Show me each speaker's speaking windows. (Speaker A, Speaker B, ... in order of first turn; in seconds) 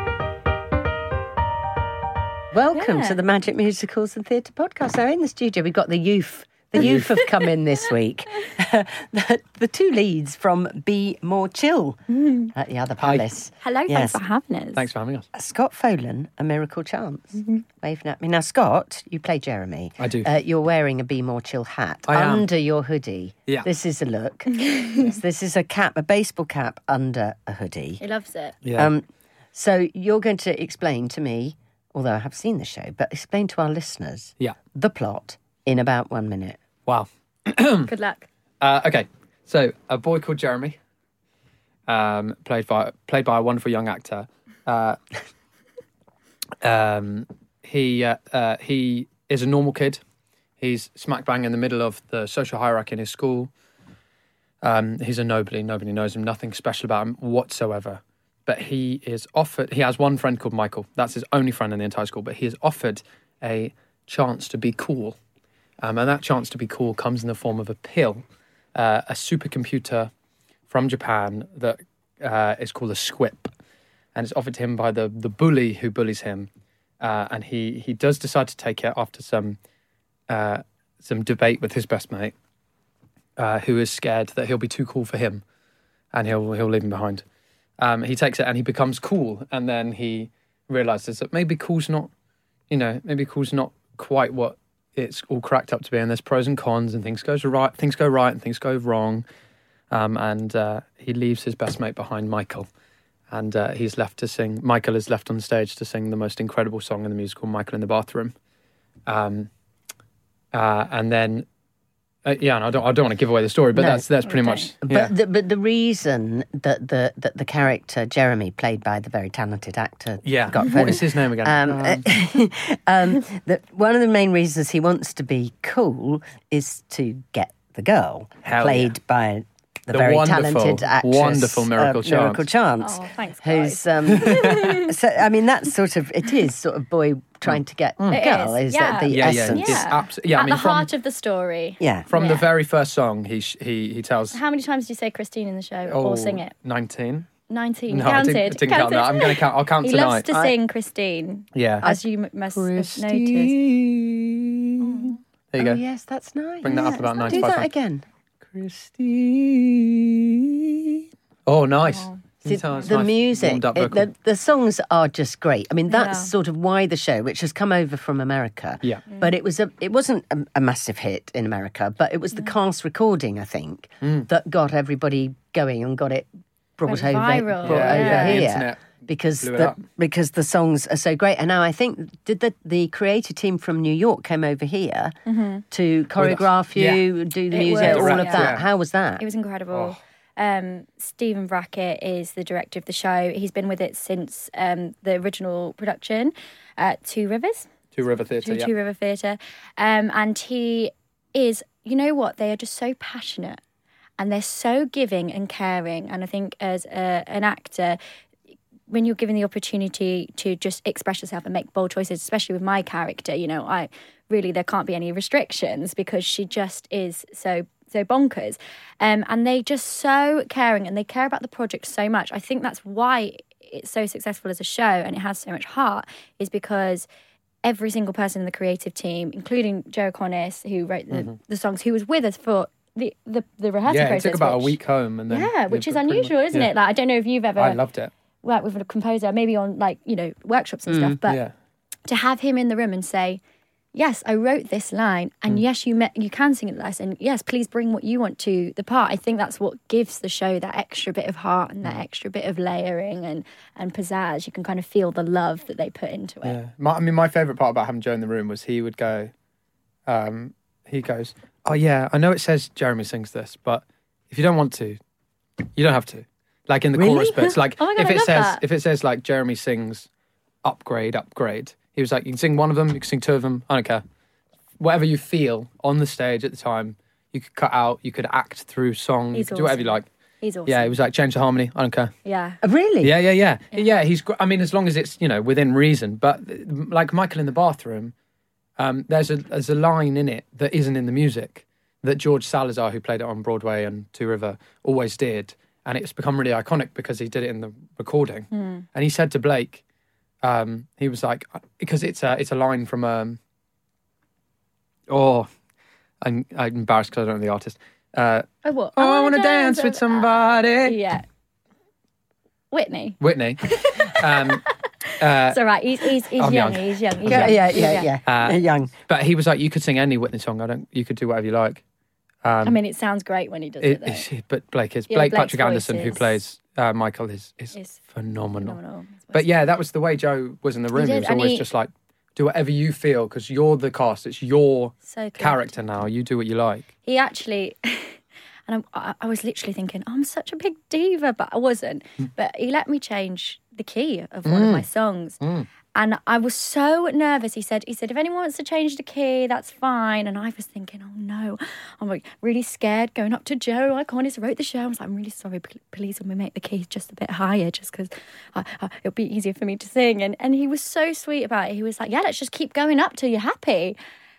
Speaker A: 2.5-12.0, 12.5-14.2, 15.3-28.0, 28.7-36.6, 113.7-114.1, 114.8-139.8, 141.8-142.1, 155.6-158.0, 162.4-185.1, 185.7-189.2, 240.9-241.2, 266.9-267.3, 282.6-283.1, 317.3-318.9
Speaker B: 2.7-3.2, 6.8-7.5, 12.1-12.5, 13.6-14.8, 24.5-25.0, 28.0-28.6, 37.9-38.3, 114.3-114.7, 132.8-134.9, 138.1-142.4, 144.3-146.5, 147.5-153.6, 154.8-155.2, 156.7-157.5, 161.8-162.9, 165.9-166.3, 169.1-169.3, 176.9-178.5, 185.2-185.6, 187.5-188.6, 189.2-197.7, 198.4-203.6, 204.2-208.0, 208.9-227.1, 227.6-234.8, 235.3-237.8, 238.4-241.4, 242.1-243.4, 243.9-256.6, 267.3-268.6, 279.3-281.0, 282.2-282.6, 298.5-298.8, 308.6-311.2, 312.7-318.1, 322.6-324.2, 325.1-326.4, 327.7-328.0, 328.6-329.5, 330.9-331.6, 335.1-335.8, 337.1-345.4, 345.9-363.9
Speaker C: 6.8-7.1, 13.0-13.3, 14.7-15.3, 20.0-20.3, 22.1-22.4, 28.6-28.9, 36.9-37.9, 38.6-40.8, 41.9-45.0, 46.6-50.0, 50.6-53.5, 54.6-65.2, 65.8-68.2, 68.7-70.1, 70.7-73.5, 74.1-76.5, 77.0-79.6, 80.3-82.3, 83.4-85.4, 86.1-87.2, 87.8-92.1, 92.7-99.2, 99.9-102.7, 103.3-108.3, 109.0-109.5, 110.5-111.5, 112.2-115.1, 120.2-122.0, 128.4-128.9, 129.9-132.4, 134.1-134.7, 139.1-140.9, 142.1-144.4, 145.9-147.3, 147.9-150.3, 151.5-151.9, 152.5-155.8, 156.6-157.7, 158.5-164.1, 174.0-174.3, 177.6-179.8, 186.2-187.0, 187.8-188.6, 197.9-198.7, 233.9-236.7, 237.6-238.1, 241.3-241.5, 256.4-259.3, 260.1-265.0, 265.8-270.1, 270.6-274.0, 274.8-280.1, 280.6-282.1, 283.0-288.1, 288.8-299.8, 300.4-303.4, 305.1-305.5, 306.2-311.0, 313.2-314.7, 315.2-321.8, 322.4-322.8, 323.8-328.8, 329.3-336.9, 344.4-344.9, 345.4-345.7